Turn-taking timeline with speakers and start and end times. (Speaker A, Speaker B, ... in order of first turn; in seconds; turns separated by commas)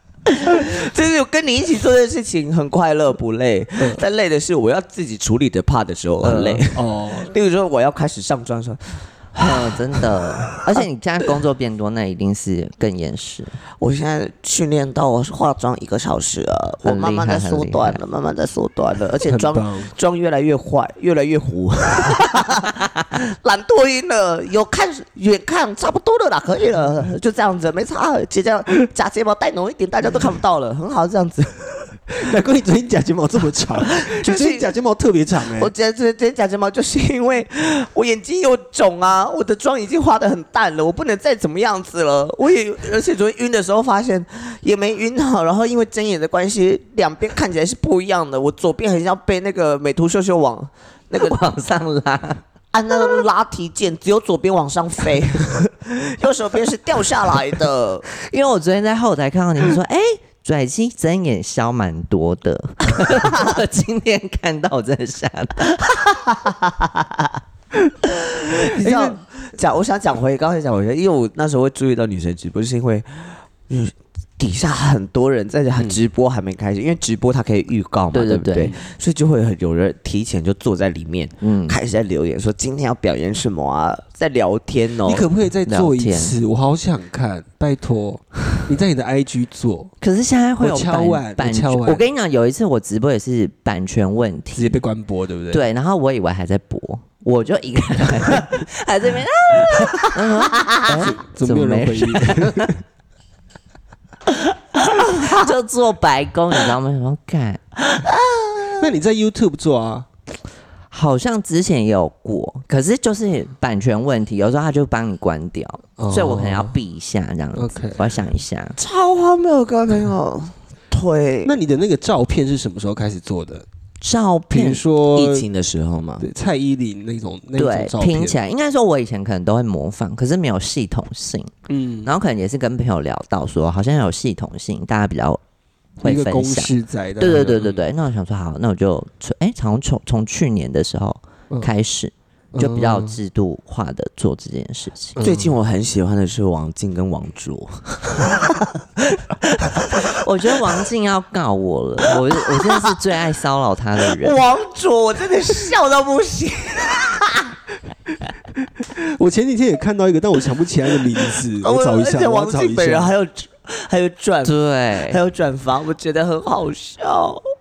Speaker A: 0.3-10.0, Speaker B: 6.2-7.3, Speaker C: 9.4-13.6, Speaker A: 13.8-31.9, Speaker C: 16.9-18.0, Speaker B: 19.3-19.9, Speaker B: 32.2-35.7, Speaker A: 33.9-34.7, Speaker A: 35.6-51.4, Speaker C: 51.2-52.4, Speaker A: 52.7-58.1, Speaker C: 58.1-66.3, Speaker A: 66.3-67.4, Speaker A: 68.1-85.2, Speaker B: 68.8-69.2, Speaker C: 78.1-78.7, Speaker C: 81.4-81.8, Speaker B: 85.1-89.9, Speaker C: 85.7-86.4, Speaker C: 90.0-94.8, Speaker B: 90.6-92.0, Speaker B: 94.5-95.7, Speaker C: 95.5-102.7, Speaker A: 99.9-100.1, Speaker B: 100.9-102.8, Speaker C: 104.8-107.6, Speaker A: 105.1-105.5, Speaker A: 107.9-108.9, Speaker B: 108.8-110.1, Speaker C: 110.9-118.8, Speaker B: 116.0-116.8, Speaker B: 117.5-118.2, Speaker A: 118.8-121.5, Speaker B: 121.5-123.7, Speaker C: 124.0-124.8, Speaker B: 124.5-125.5, Speaker A: 125.1-126.3, Speaker B: 126.2-128.4, Speaker C: 127.6-131.5, Speaker B: 131.7-132.1, Speaker C: 132.1-135.4, Speaker C: 136.0-145.2, Speaker B: 136.0-137.8, Speaker B: 142.5-143.2, Speaker B: 145.2-145.5, Speaker A: 145.2-150.1, Speaker C: 150.0-154.4, Speaker A: 152.1-152.9, Speaker A: 154.1-157.5, Speaker B: 158.8-163.1, Speaker A: 161.6-167.4, Speaker C: 164.4-165.2